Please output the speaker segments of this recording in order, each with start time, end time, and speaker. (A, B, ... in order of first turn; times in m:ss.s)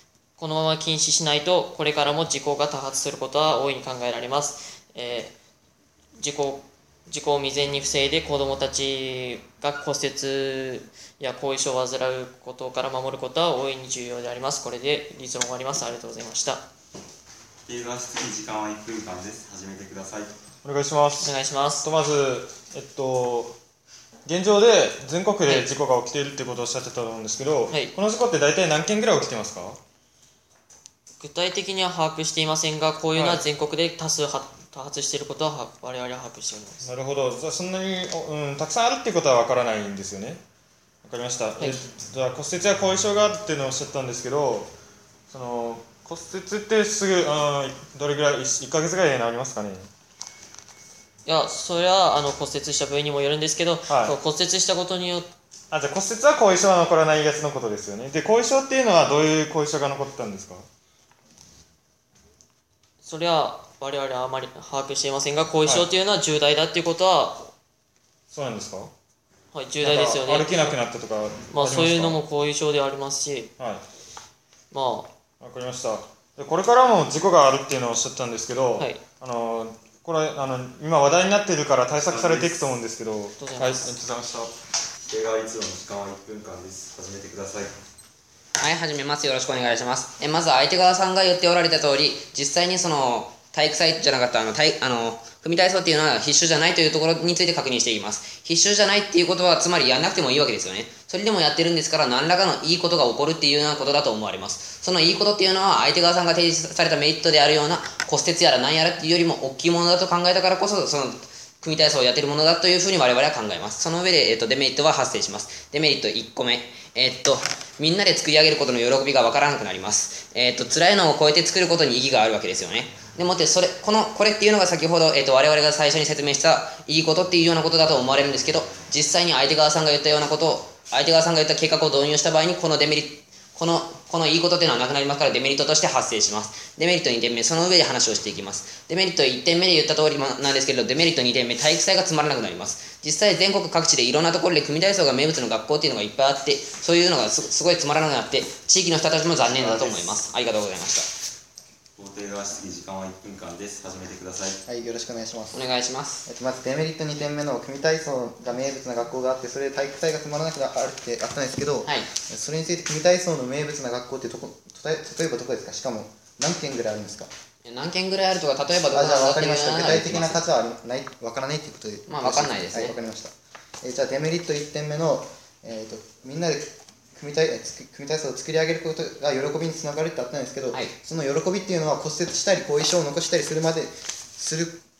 0:00.4-0:05.3 A
0:06.2-0:16.6 A
0:17.7-0:20.3 B
0:20.6-0:23.5 C
0:21.2-0:21.9 A
0:24.2-0:29.8 C
0:25.4-0:25.7 A
0:27.7-0:27.9 A
0:31.2-0:36.9 A
0:33.1-0:33.4 C
0:36.8-0:40.4 C
0:41.0-0:44.7 C
0:45.3-0:49.9 C
0:51.2-0:55.3 A
0:53.9-0:54.2 C
0:55.7-1:00.6 C
1:03.0-1:07.5 A
1:08.3-1:08.9 C
1:09.5-1:10.8 A
1:09.8-1:12.2 C
1:11.5-1:13.5 A
1:14.7-1:15.1 A
1:15.4-1:24.5 C
1:18.7-1:19.0 A
1:22.0-1:22.7 B
1:23.4-1:23.9 A
1:25.0-1:27.7 B
1:28.6-2:31.1 D
2:29.4-2:30.2 B
2:32.0-2:34.6 B
2:34.6-2:35.6 E
2:35.5-2:36.2 D
2:36.2-2:47.3 E
2:41.8-2:42.1 D
2:47.6-2:50.4 D
2:48.9-2:53.3 E
2:52.0-2:53.0 D
2:53.8-3:04.8 E